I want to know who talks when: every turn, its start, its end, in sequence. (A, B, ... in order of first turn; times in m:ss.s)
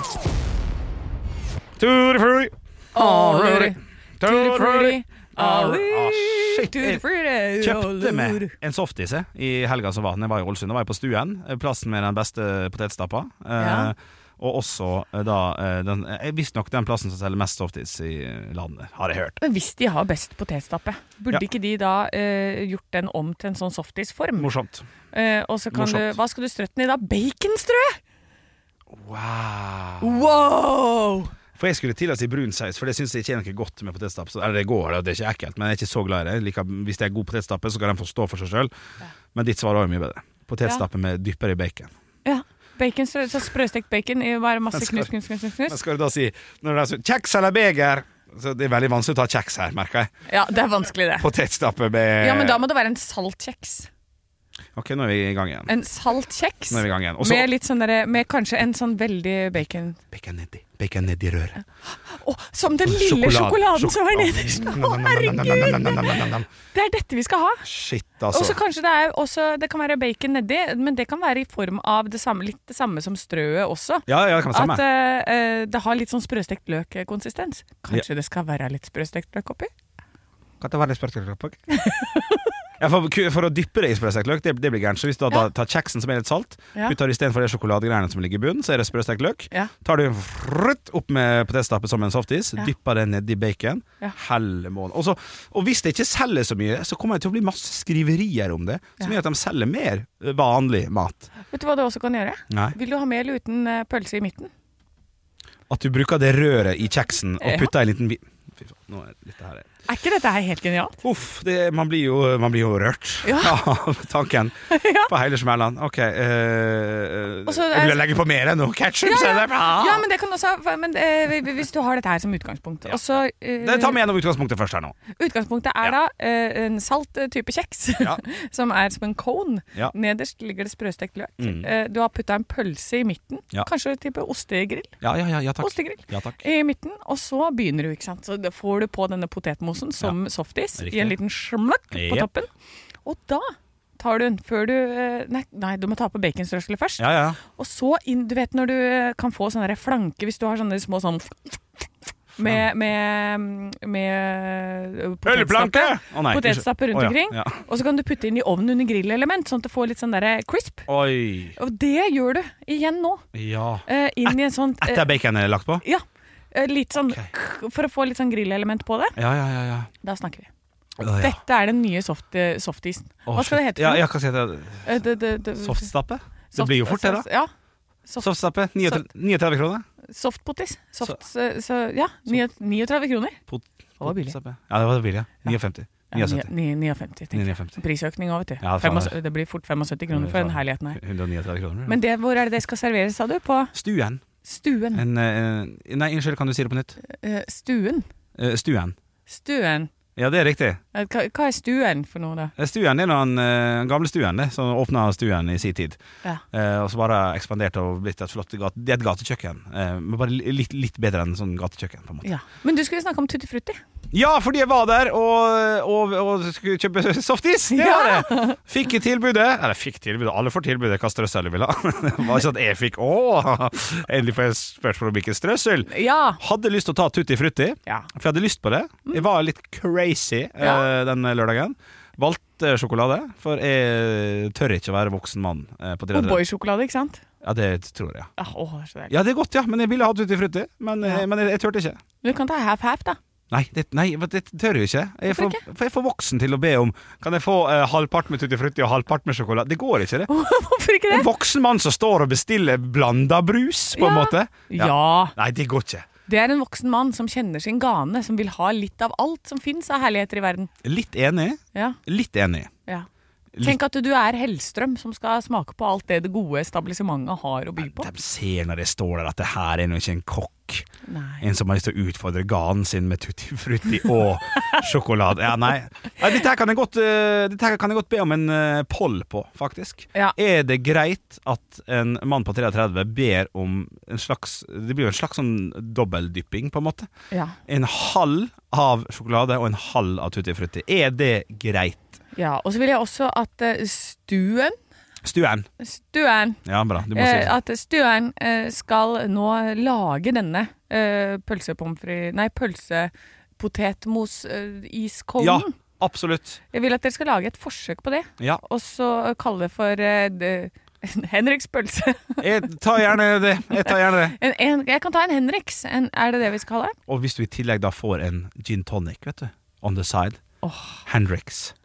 0:01.8-0:07.0 A
0:02.9-0:08.5 B
0:07.6-0:19.4 A
0:13.6-0:13.9 B
0:19.4-0:24.5 B
0:24.4-0:24.8 A
0:25.1-0:28.0 B
0:25.7-0:26.1 A
0:28.9-0:30.2 A
0:30.0-0:31.3 B
0:31.6-0:38.7 A
0:39.3-0:41.9 A
0:42.2-0:45.8 B
0:44.7-0:45.1 A
0:45.6-0:50.1 A
0:50.3-0:51.3 B
0:51.2-0:52.6 A
0:52.2-0:53.9 B
0:54.8-0:55.7 A
0:55.7-1:00.0 B
0:56.7-0:57.5 A
1:00.1-1:01.6 A
1:02.1-1:07.6 B
1:02.8-1:06.5 A
1:07.6-1:08.6 A
1:08.3-1:19.7 B
1:14.1-1:14.8 A
1:20.6-1:21.6 A
1:21.7-1:22.5 B
1:22.8-1:41.3 A
1:41.5-1:44.5 B
1:42.5-1:42.8 A
1:45.7-1:49.7 A
1:47.4-1:47.7 B
1:49.9-1:51.0 B
1:51.0-2:00.0 A
1:53.2-1:53.6 B
1:54.7-1:55.1 B
1:57.5-1:58.0 B
1:59.0-2:04.0 B
2:03.6-2:05.0 A
2:05.1-2:15.0 B
2:11.4-2:11.7 A
2:15.0-2:16.4 A
2:15.6-2:22.5 B
2:20.8-2:21.2 A
2:21.9-2:22.3 A
2:23.0-2:31.6 B
2:27.0-2:27.4 A
2:32.4-2:40.9 B
2:32.4-2:32.6 A
2:35.2-2:37.6 A
2:40.9-2:41.6 A
2:41.6-2:43.2 B
2:43.3-2:45.8 A
2:43.8-2:45.1 B
2:45.8-2:49.2 B
2:49.2-2:49.9 A
2:50.0-2:50.5 B
2:51.0-2:51.4 A
2:51.0-2:54.0 B
2:53.3-2:54.9 A
2:54.8-2:55.9 B
2:55.6-2:57.3 A
2:56.5-2:57.5 B
2:58.2-2:59.8 A
3:00.1-3:03.4 B
3:03.5-3:06.5 A
3:04.0-3:04.4 B
3:06.1-3:11.0 B
3:07.3-3:07.8 A
3:08.6-3:09.1 A
3:10.1-3:12.0 A
3:11.9-3:13.7 B
3:13.7-3:14.2 A
3:14.4-3:15.0 B
3:14.9-3:17.0 A
3:17.0-3:18.1 B
3:18.4-3:19.0 A
3:19.3-3:19.9 B
3:20.2-3:20.8 A
3:20.9-3:22.5 B
3:22.6-3:26.0 A
3:26.5-3:32.3 A
3:32.2-3:33.8 B
3:34.1-3:56.4 A
3:37.7-3:38.6 B
3:45.9-3:46.4 B
3:50.6-3:50.9 B
3:56.1-3:57.2 B
3:57.4-3:58.3 A
3:58.4-3:59.1 B
3:59.1-4:02.0 A
4:02.2-4:03.2 B
4:03.5-4:10.3 A
4:05.3-4:05.6 B
4:10.3-4:11.3 B
4:11.1-4:16.1 A
4:14.0-4:15.3 B
4:16.3-4:20.7 B
4:20.8-4:22.7 A
4:23.5-4:23.8 A
4:23.6-4:28.1 B
4:27.8-4:30.9 A
4:31.0-4:31.4 B
4:31.4-4:47.1 A
4:47.3-4:47.6 B
4:47.7-4:52.1 A
4:52.3-4:54.8 B
4:55.2-4:55.7 A
4:55.8-4:56.6 B
4:56.6-4:57.5 A
4:57.1-5:05.7 B
5:05.4-5:06.6 A
5:06.7-5:12.5 B
5:12.4-5:14.4 A
5:13.8-5:17.0 B
5:17.1-5:20.4 A
5:20.6-5:21.0 B
5:21.0-5:21.7 A